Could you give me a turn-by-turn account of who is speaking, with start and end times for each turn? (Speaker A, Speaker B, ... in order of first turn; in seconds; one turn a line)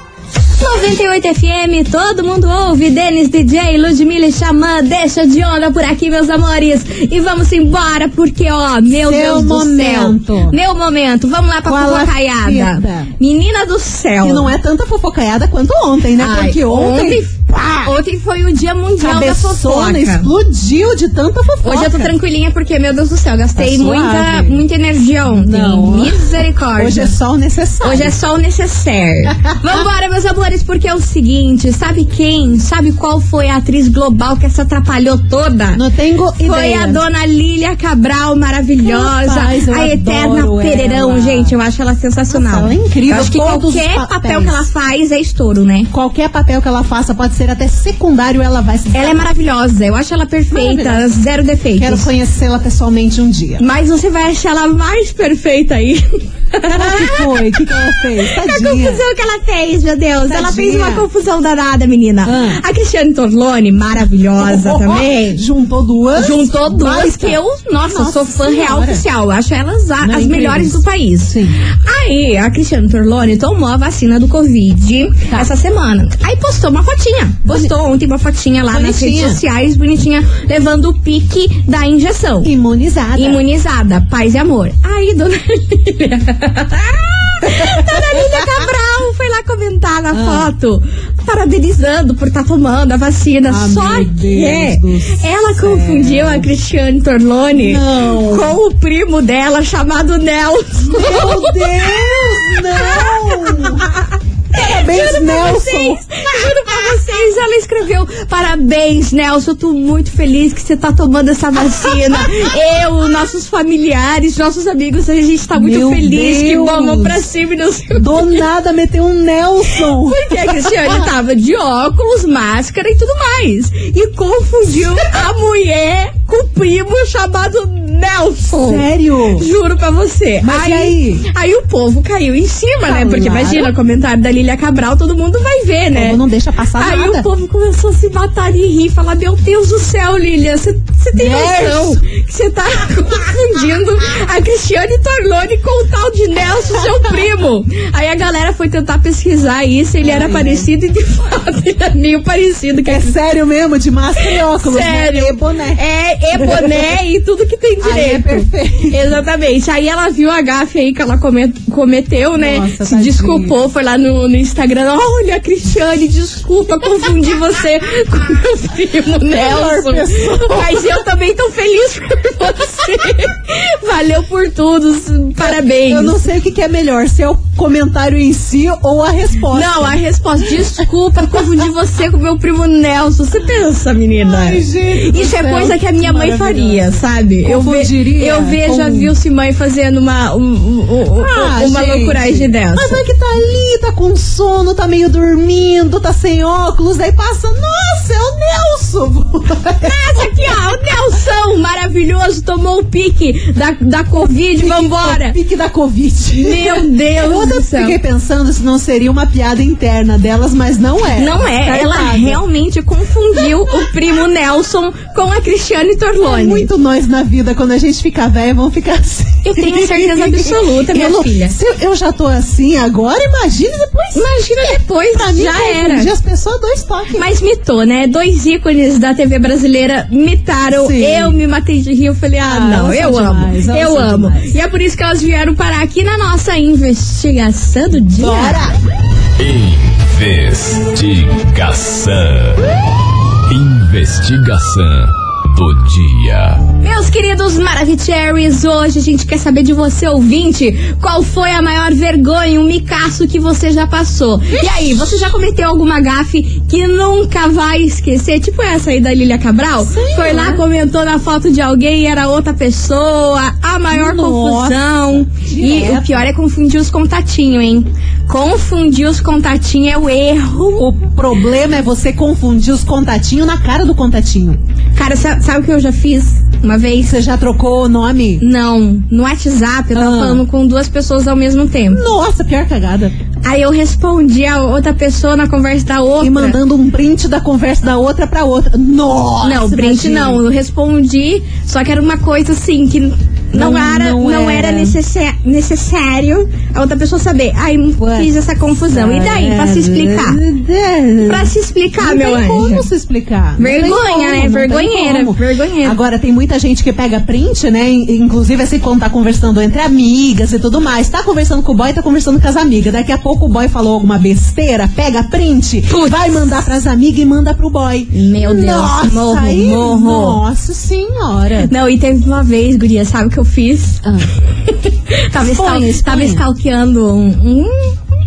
Speaker A: 0.6-14.5
Speaker B: 9.0-10.6
Speaker B: 11.7-13.1
Speaker B: 14.2-17.9
Speaker A: 16.2-20.3
Speaker B: 19.0-22.1
Speaker A: 21.6-27.2
Speaker B: 23.6-24.6
Speaker B: 25.3-28.1
Speaker A: 27.8-35.8
Speaker B: 35.8-37.0
Speaker A: 36.4-45.9
Speaker B: 38.8-41.5
Speaker B: 42.3-44.6
Speaker B: 45.9-49.2
Speaker A: 48.9-52.1
Speaker B: 50.5-51.0
Speaker B: 51.8-53.6
Speaker A: 53.6-65.4
Speaker B: 56.7-59.0
Speaker B: 60.3-61.1
Speaker B: 62.2-62.6
Speaker B: 64.4-69.0
Speaker A: 66.2-82.5
Speaker B: 70.0-71.6
Speaker B: 78.7-79.4
Speaker B: 82.4-83.4
Speaker A: 83.2-103.7
Speaker B: 87.5-88.1
Speaker B: 90.1-90.5
Speaker B: 93.5-96.5
Speaker B: 97.5-98.5
Speaker B: 100.9-103.9
Speaker A: 104.5-118.4
Speaker B: 104.6-106.0
Speaker B: 115.5-117.2
Speaker B: 118.0-121.1
Speaker A: 120.1-128.9
Speaker B: 128.5-129.5
Speaker A: 129.4-136.2
Speaker B: 130.4-131.2
Speaker B: 132.8-133.7
Speaker B: 135.9-137.2
Speaker A: 136.8-153.2
Speaker B: 141.1-142.0
Speaker B: 150.0-150.7
Speaker B: 152.9-155.8
Speaker A: 154.2-176.2
Speaker B: 156.4-156.8
Speaker B: 157.8-159.0
Speaker B: 162.4-163.6
Speaker B: 169.3-171.0
Speaker B: 175.4-180.0
Speaker A: 179.5-193.0
Speaker B: 184.2-189.1
Speaker B: 191.2-200.6
Speaker A: 199.8-205.4
Speaker B: 204.6-212.4
Speaker A: 206.3-208.0
Speaker A: 211.2-216.7
Speaker B: 216.2-227.3
Speaker A: 219.4-221.6
Speaker A: 224.1-226.1
Speaker A: 227.2-238.6
Speaker B: 230.7-231.4
Speaker B: 232.4-234.6
Speaker B: 238.2-238.8
Speaker C: 239.4-242.6
Speaker C: 243.5-246.6
Speaker A: 246.8-270.9
Speaker B: 254.5-255.1
Speaker B: 259.8-260.6
Speaker B: 263.9-266.2
Speaker B: 270.8-274.6
Speaker A: 274.9-277.1
Speaker B: 277.0-278.4
Speaker A: 278.4-282.0
Speaker B: 279.9-280.4
Speaker B: 281.9-283.1
Speaker A: 283.4-286.6
Speaker B: 286.2-290.4
Speaker A: 289.4-300.4
Speaker B: 293.5-294.9
Speaker B: 298.0-298.3
Speaker B: 298.9-321.7
Speaker A: 301.2-302.9
Speaker A: 303.6-306.0
Speaker A: 315.9-316.4
Speaker A: 318.1-320.4
Speaker A: 321.7-324.0
Speaker B: 324.0-324.3
Speaker A: 324.7-328.0
Speaker B: 325.4-326.4